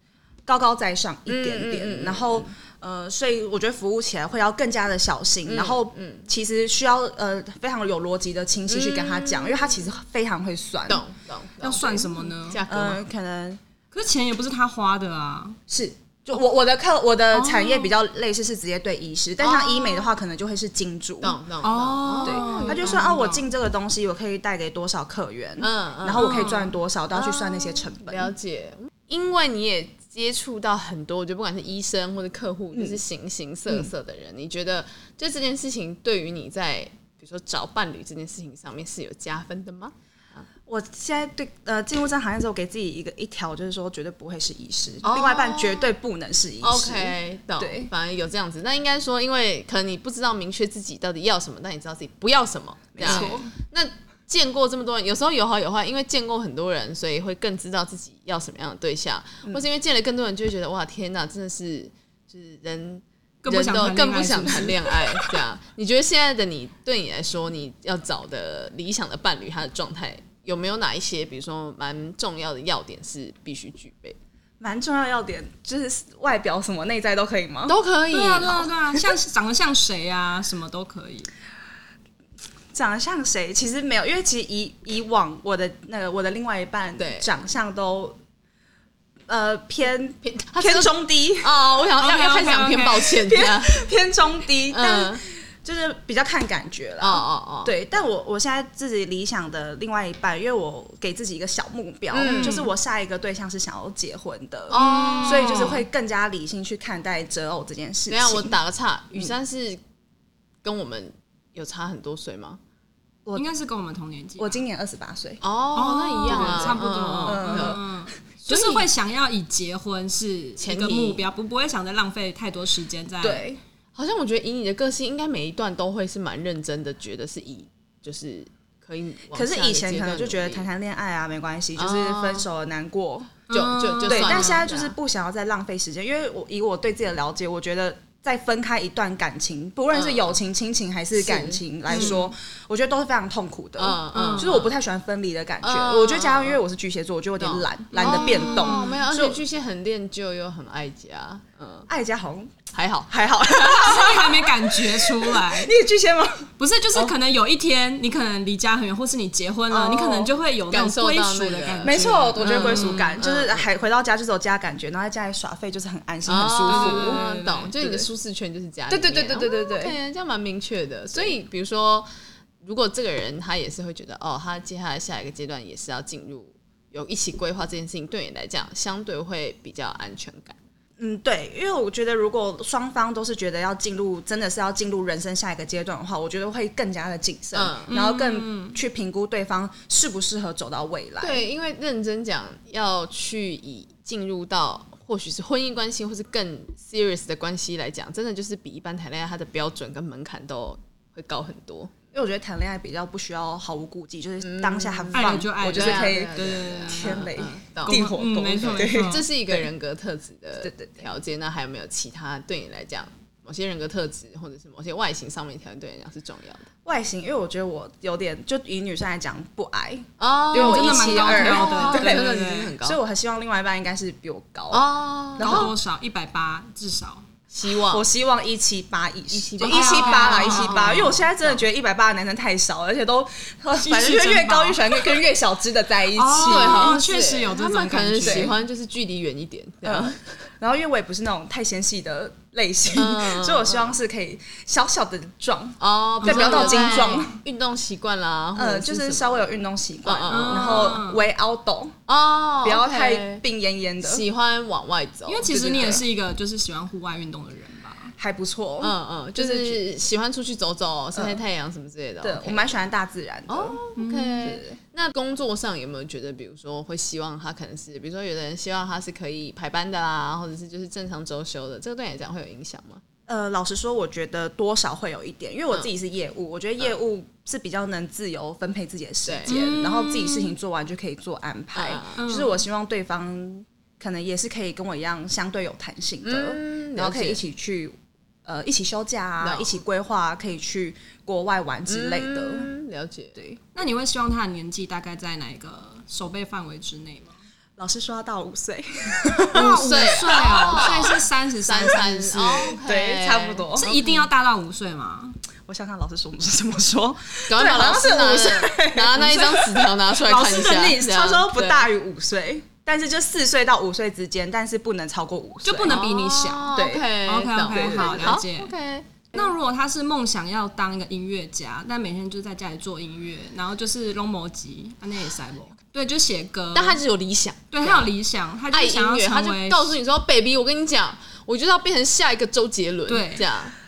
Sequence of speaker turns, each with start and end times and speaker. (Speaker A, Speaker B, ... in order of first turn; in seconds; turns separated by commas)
Speaker A: 0.5-11.0, Speaker B: 1.3-2.5, Speaker B: 5.5-6.3, Speaker B: 8.7-9.8, Speaker B: 10.9-13.0, Speaker C: 11.6-12.6, Speaker A: 12.7-13.6, Speaker C: 13.9-15.6, Speaker A: 15.7-21.4, Speaker C: 17.3-17.9, Speaker B: 19.4-20.1, Speaker B: 21.2-23.1, Speaker C: 21.6-23.5, Speaker A: 22.2-28.3, Speaker B: 25.6-26.4, Speaker C: 26.2-26.8, Speaker B: 27.1-40.5, Speaker A: 32.7-33.0, Speaker A: 40.7-47.9, Speaker B: 45.0-45.9, Speaker B: 46.6-74.2, Speaker A: 53.0-53.5, Speaker C: 53.1-53.4, Speaker C: 63.4-65.3, Speaker A: 74.6-77.8, Speaker B: 77.7-78.8, Speaker C: 78.1-81.3, Speaker A: 82.7-88.2, Speaker B: 87.0-87.3, Speaker A: 89.3-91.5, Speaker B: 90.2-93.9, Speaker C: 92.0-93.2, Speaker A: 93.2-108.6, Speaker B: 94.7-95.2, Speaker B: 97.0-97.8, Speaker B: 102.1-102.7, Speaker C: 102.2-102.7, Speaker B: 104.7-105.8, Speaker C: 104.7-105.8, Speaker B: 108.1-109.8, Speaker B: 110.6-112.6, Speaker C: 113.3-114.6, Speaker A: 114.4-115.4, Speaker B: 115.4-117.8, Speaker C: 115.8-123.5, Speaker A: 116.3-117.9, Speaker B: 118.5-118.9, Speaker B: 120.6-121.2, Speaker A: 123.2-123.6, Speaker B: 124.0-130.7, Speaker A: 129.3-133.4, Speaker B: 131.8-132.5, Speaker C: 133.5-134.6, Speaker B: 133.5-135.0, Speaker A: 134.1-149.4, Speaker B: 139.9-140.4, Speaker B: 141.2-142.2, Speaker C: 141.9-142.3, Speaker B: 143.8-144.7, Speaker C: 144.1-144.5, Speaker B: 145.6-146.6, Speaker B: 147.4-151.9, Speaker C: 148.0-149.0, Speaker A: 151.9-152.5, Speaker B: 152.7-154.1, Speaker A: 153.1-157.2, Speaker C: 153.7-155.8, Speaker C: 156.6-163.2, Speaker B: 159.8-163.7, Speaker A: 161.8-167.2, Speaker B: 166.3-172.1, Speaker C: 166.7-167.7, Speaker A: 167.8-168.1, Speaker A: 168.9-169.9, Speaker B: 172.6-180.6, Speaker A: 181.0-191.4, Speaker B: 187.5-187.9, Speaker C: 187.9-188.8, Speaker B: 191.2-201.9, Speaker A: 202.1-206.3, Speaker B: 204.4-216.7, Speaker C: 205.1-207.3, Speaker A: 206.9-209.7, Speaker C: 207.8-209.3, Speaker A: 210.6-211.0, Speaker A: 216.8-224.8, Speaker B: 220.2-223.0, Speaker C: 220.5-222.7, Speaker B: 224.7-225.7, Speaker A: 225.4-225.7, Speaker C: 225.4-227.2, Speaker B: 227.5-228.1, Speaker A: 227.9-237.0, Speaker B: 229.3-231.6, Speaker C: 229.6-231.2, Speaker C: 233.8-235.2, Speaker C: 236.2-238.5, Speaker B: 236.4-240.3, Speaker A: 238.2-238.5, Speaker A: 239.8-247.3, Speaker B: 242.9-243.9, Speaker B: 245.8-251.0, Speaker C: 246.2-247.4, Speaker A: 248.6-251.9, Speaker C: 250.3-251.3, Speaker B: 252.1-253.4, Speaker A: 252.6-254.2, Speaker B: 254.0-256.1, Speaker C: 255.3-258.1, Speaker A: 258.2-259.8, Speaker B: 258.8-262.8, Speaker A: 261.1-261.4, Speaker A: 262.2-263.8, Speaker B: 263.5-273.0, Speaker C: 264.0-264.5, Speaker A: 264.4-264.8, Speaker A: 273.3-292.7, Speaker B: 279.2-279.9, Speaker C: 279.5-280.6, Speaker B: 281.7-282.3, Speaker C: 282.2-282.6, Speaker B: 286.2-287.4, Speaker B: 289.4-289.8, Speaker B: 291.9-293.4, Speaker A: 293.4-293.6, Speaker C: 293.7-297.4, Speaker A: 297.8-300.9, Speaker C: 299.4-302.8, Speaker B: 299.5-304.3, Speaker A: 302.8-303.9, Speaker C: 303.8-305.4, Speaker A: 305.7-316.0, Speaker B: 307.5-311.9, Speaker C: 310.3-311.0, Speaker C: 315.6-316.7, Speaker B: 315.9-319.5, Speaker A: 316.7-317.1, Speaker C: 317.2-318.7, Speaker A: 317.7-318.4, Speaker C: 319.3-327.0, Speaker B: 326.7-328.1, Speaker C: 327.7-329.9, Speaker B: 328.7-333.7, Speaker C: 333.1-333.4